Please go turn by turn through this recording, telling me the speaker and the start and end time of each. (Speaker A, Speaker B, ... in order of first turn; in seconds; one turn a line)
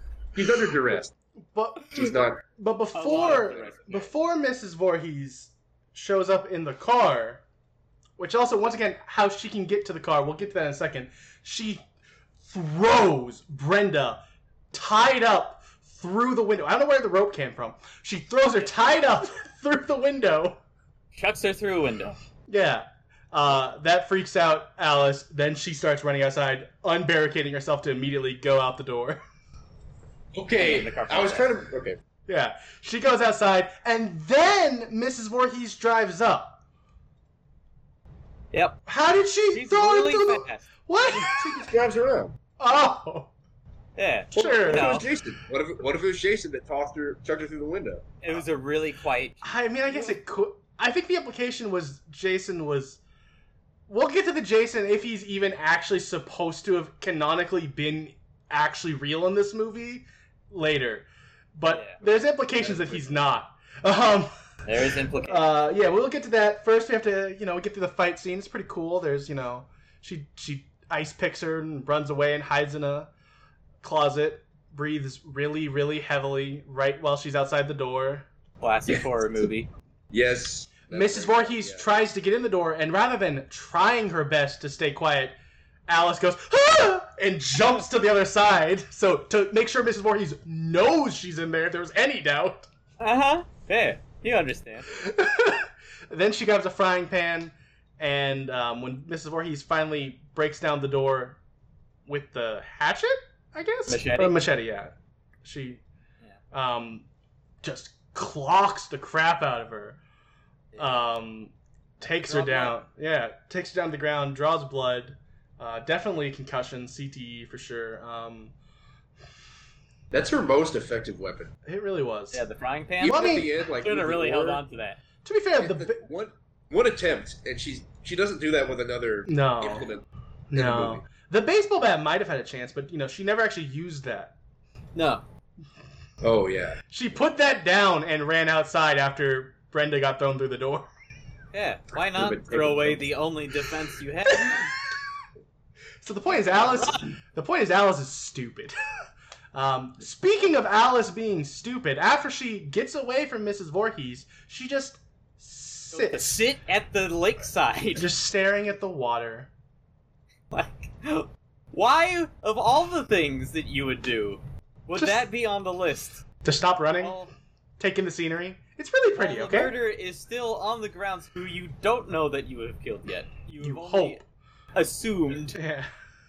Speaker A: 0.3-1.1
Speaker B: 1.5-7.4
Speaker A: 1.9-2.4
Speaker C: 3.0-4.1
Speaker A: 3.1-3.6
Speaker B: 8.2-11.8
Speaker B: 12.4-14.2
Speaker B: 14.7-20.6
Speaker C: 21.1-22.2
Speaker B: 22.5-29.2
Speaker A: 30.3-32.0
Speaker C: 30.6-31.6
Speaker B: 32.3-36.6
Speaker C: 38.5-38.8
Speaker B: 38.9-41.7
Speaker C: 39.5-41.2
Speaker A: 41.2-42.4
Speaker B: 42.6-43.3
Speaker C: 44.0-45.0
Speaker B: 44.4-45.0
Speaker A: 44.4-48.2
Speaker C: 48.2-49.6
Speaker B: 49.4-53.0
Speaker B: 53.9-64.3
Speaker C: 61.7-62.0
Speaker A: 62.6-63.2
Speaker C: 64.7-65.5
Speaker B: 65.2-73.1
Speaker B: 73.8-78.3
Speaker C: 78.6-79.7
Speaker A: 80.1-81.9
Speaker B: 80.9-85.3
Speaker B: 85.9-92.7
Speaker C: 93.0-94.9
Speaker B: 94.9-101.4
Speaker B: 102.1-105.8
Speaker C: 103.9-104.4
Speaker B: 106.5-107.1
Speaker B: 107.6-110.0
Speaker C: 110.7-111.0
Speaker B: 110.8-118.5
Speaker C: 112.1-112.8
Speaker A: 120.1-121.5
Speaker B: 121.7-122.4
Speaker C: 122.3-125.0
Speaker A: 123.0-124.6
Speaker B: 123.0-123.5
Speaker B: 125.2-126.0
Speaker A: 125.6-131.0
Speaker B: 129.3-129.9
Speaker B: 130.5-134.3
Speaker C: 134.9-135.2
Speaker A: 136.2-136.8
Speaker B: 136.9-140.9
Speaker C: 141.5-144.8
Speaker A: 142.1-143.1
Speaker B: 146.0-148.8
Speaker C: 146.3-147.2
Speaker B: 149.5-156.4
Speaker C: 155.9-158.1
Speaker B: 158.0-159.5
Speaker C: 160.5-166.2
Speaker B: 165.0-165.2
Speaker B: 166.4-167.2
Speaker C: 167.0-167.3
Speaker B: 167.8-169.7
Speaker C: 169.2-174.2
Speaker B: 173.6-174.3
Speaker C: 174.7-175.6
Speaker B: 175.5-175.9